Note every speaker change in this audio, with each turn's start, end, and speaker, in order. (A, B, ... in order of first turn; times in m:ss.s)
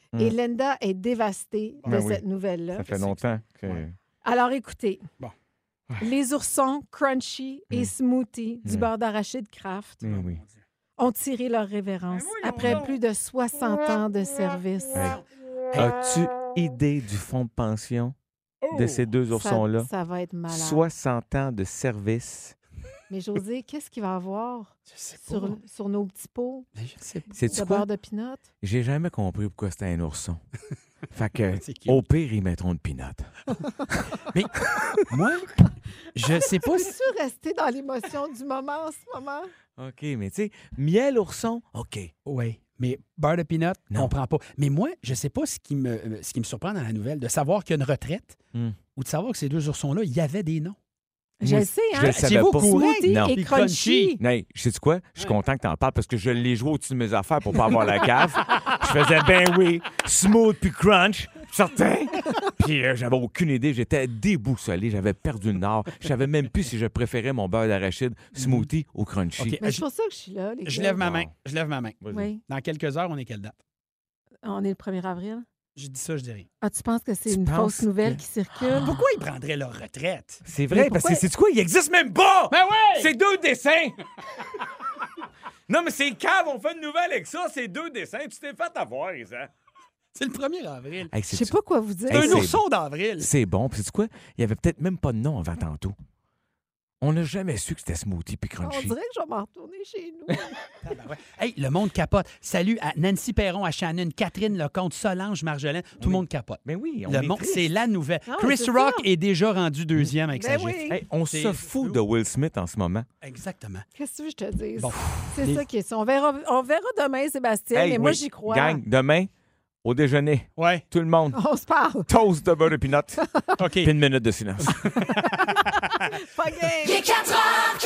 0:00.2-0:02.9 A
0:01.8-0:02.2 B
0:02.8-0:03.9 B
0:02.9-0:03.8 C
0:04.2-0:05.0 A
0:06.0-0:10.0 A
0:10.0-0:10.4 B
0:10.0-0:10.5 C
0:11.0-0:15.2 A
0:12.1-0:12.9 C
0:14.9-0:15.2 B
0:14.9-0:15.2 C
0:15.7-0:18.1 B
0:18.6-0:19.0 C
0:18.7-0:19.9 B
0:19.3-0:20.8 A
0:20.5-0:22.6 B
0:23.1-0:26.7 A
0:24.9-0:25.6 C
0:26.8-0:27.3 C
0:27.3-0:27.8 B
0:27.4-0:28.4 A
0:28.6-0:30.4 B
0:31.1-0:33.3 B
0:31.6-0:32.0 C
0:34.3-0:36.9 C
0:36.4-0:39.5 A
0:39.8-0:42.1 B
0:42.2-0:48.4 C
0:48.9-0:50.8 C
0:51.4-0:54.2 A
0:51.4-0:53.4 B
0:52.1-0:54.2 C
0:54.2-1:09.6 B
1:08.4-1:08.7 C
1:09.4-1:09.8 C
1:09.6-1:11.0 A
1:10.6-1:13.6 C
1:11.0-1:11.3 B
1:12.0-1:12.3 B
1:12.1-1:12.4 A
1:14.4-1:15.4 A
1:15.7-1:16.5 C
1:16.6-1:19.0 A
1:17.3-1:18.2 B
1:18.7-1:20.4 C
1:20.4-1:24.0 B
1:20.7-1:21.2 A
1:22.5-1:23.1 C
1:25.7-1:29.5 B
1:30.1-1:31.1 C
1:31.1-1:31.5 B
1:31.3-1:32.5 A
1:32.1-1:32.6 B
1:32.1-1:33.3 C
1:33.2-1:36.0 B
1:37.0-1:38.9 B
1:38.6-1:40.6 A
1:40.8-1:52.0 C
1:46.0-1:47.7 B
1:48.3-1:49.1 A
1:50.3-1:51.0 A
1:50.9-1:53.1 B
1:53.2-1:53.8 C
1:54.0-1:58.8 A
1:54.8-1:55.6 C
1:57.7-1:59.3 B
1:59.8-2:01.4 B
2:00.6-2:00.8 C
2:01.3-2:02.1 A
2:02.1-2:04.9 B
2:03.6-2:03.9 C
2:04.8-2:06.1 C
2:05.2-2:07.1 A